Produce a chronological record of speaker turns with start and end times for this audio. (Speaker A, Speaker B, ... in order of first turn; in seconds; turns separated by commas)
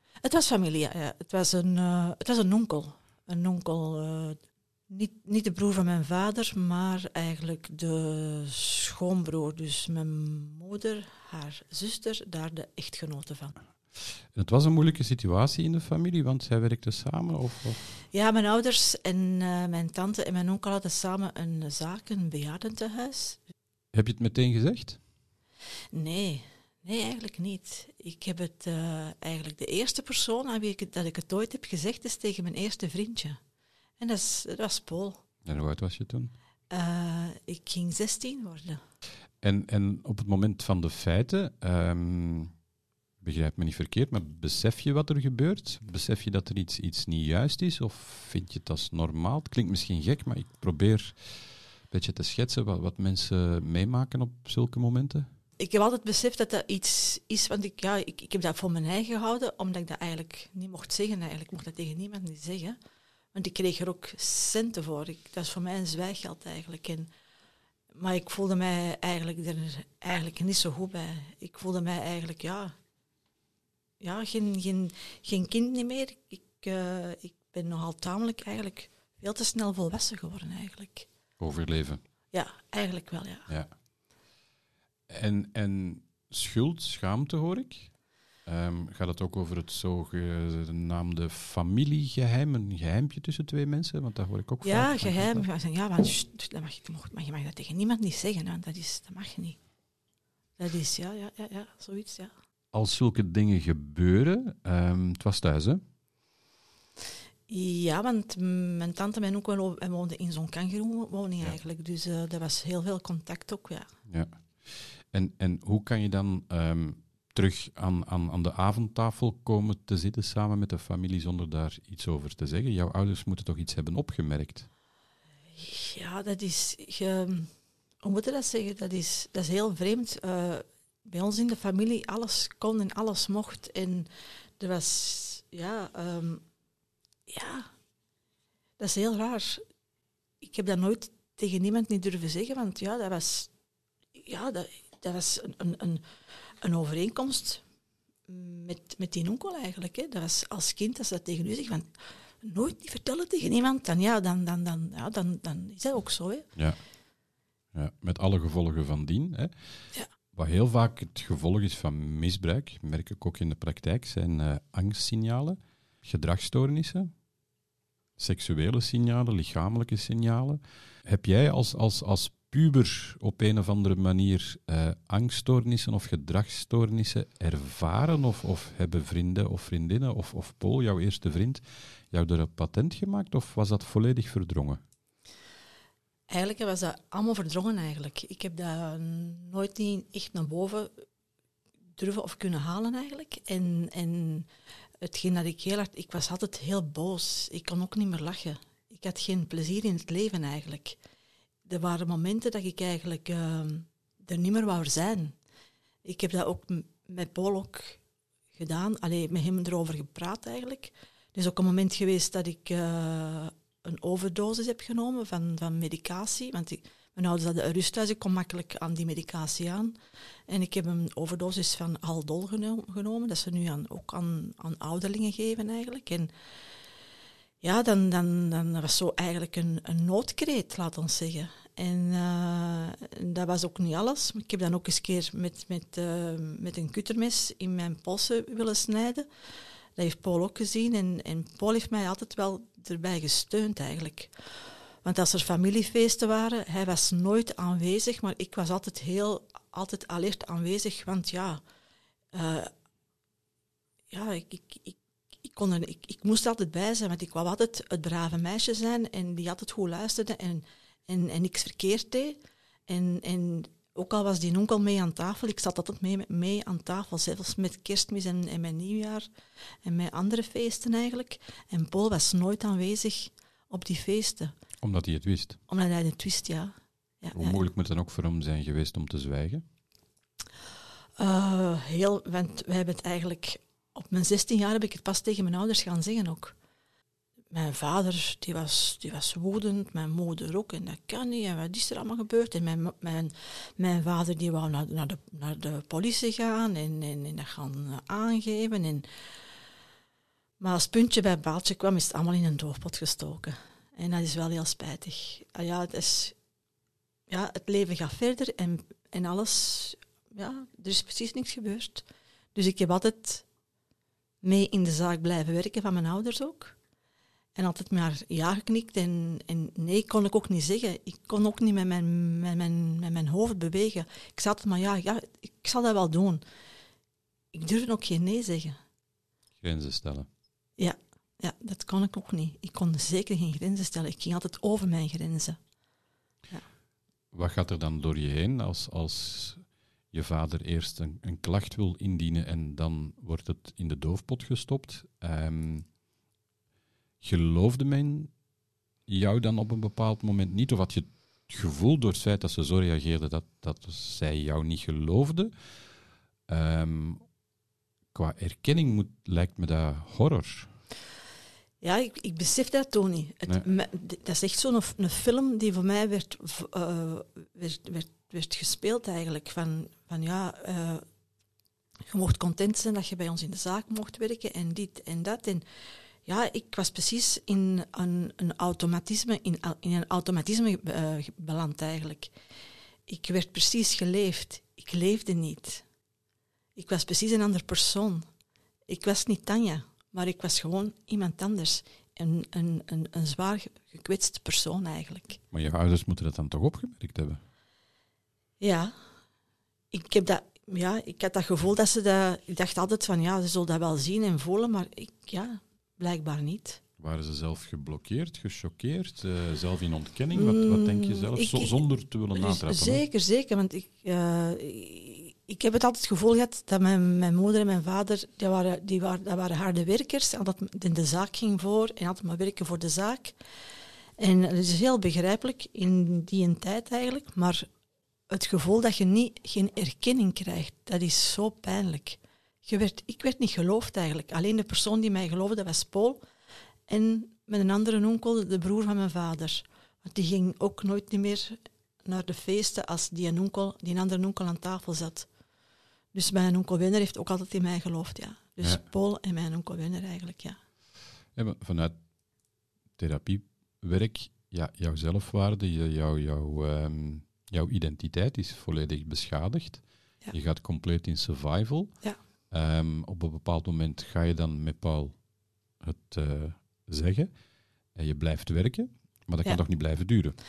Speaker A: 0.2-13.6, Speaker B: 14.3-17.9, Speaker A: 18.1-23.4, Speaker B: 23.9-25.0, Speaker A: 25.9-33.4, Speaker A: 34.0-35.2, Speaker B: 35.5-36.3, Speaker A: 36.7-38.8, Speaker B: 39.4-42.5, Speaker B: 43.2-51.4, Speaker B: 51.9-55.3, Speaker A: 55.6-62.8, Speaker A: 63.3-67.1, Speaker A: 67.9-72.7, Speaker A: 74.0-81.1, Speaker B: 81.4-82.0, Speaker A: 82.3-83.5, Speaker B: 85.1-87.9, Speaker B: 88.5-95.5, Speaker A: 94.6-99.6, Speaker A: 100.6-102.3, Speaker B: 102.7-105.8, Speaker A: 107.5-113.9, Speaker B: 114.1-124.7, Speaker A: 125.5-136.4, Speaker A: 137.3-137.7, Speaker A: 138.8-139.6, Speaker A: 140.4-143.5, Speaker A: 144.2-146.0, Speaker A: 146.6-147.6, Speaker A: 148.3-151.9, Speaker A: 152.4-156.5, Speaker B: 157.7-159.5, Speaker B: 160.3-167.1, Speaker B: 168.2-184.8, Speaker A: 186.3-191.1, Speaker A: 192.0-194.5, Speaker A: 195.0-201.0, Speaker A: 201.7-205.3, Speaker A: 206.0-208.0, Speaker A: 208.6-220.0, Speaker A: 220.5-226.3, Speaker A: 227.6-239.3, Speaker A: 240.0-244.3, Speaker A: 245.0-251.6, Speaker A: 252.3-252.7, Speaker A: 254.1-269.3, Speaker A: 269.9-274.5, Speaker B: 274.8-275.6, Speaker A: 275.7-277.6, Speaker B: 277.3-279.6, Speaker A: 281.2-286.6, Speaker A: 287.5-299.1, Speaker A: 300.6-306.4, Speaker A: 307.3-313.4, Speaker A: 314.4-316.8, Speaker A: 317.6-326.4, Speaker A: 327.5-328.8, Speaker B: 329.6-330.3, Speaker A: 330.8-335.6, Speaker B: 337.3-345.9, Speaker B: 347.2-348.3, Speaker B: 349.1-355.5, Speaker B: 356.5-357.2, Speaker B: 358.1-360.7, Speaker A: 361.8-371.1, Speaker A: 372.1-375.6, Speaker A: 376.3-382.3, Speaker A: 383.1-385.9, Speaker A: 386.8-388.3, Speaker A: 388.9-395.4, Speaker B: 395.5-397.4, Speaker A: 398.6-398.9, Speaker A: 399.9-406.8, Speaker B: 407.0-413.0, Speaker A: 410.3-411.8, Speaker A: 412.3-423.4, Speaker A: 424.2-427.7, Speaker A: 428.3-436.2, Speaker A: 436.9-445.3, Speaker A: 446.1-450.6, Speaker B: 451.4-452.0, Speaker B: 453.0-461.9, Speaker B: 462.5-465.2, Speaker B: 465.8-467.3, Speaker B: 467.9-470.4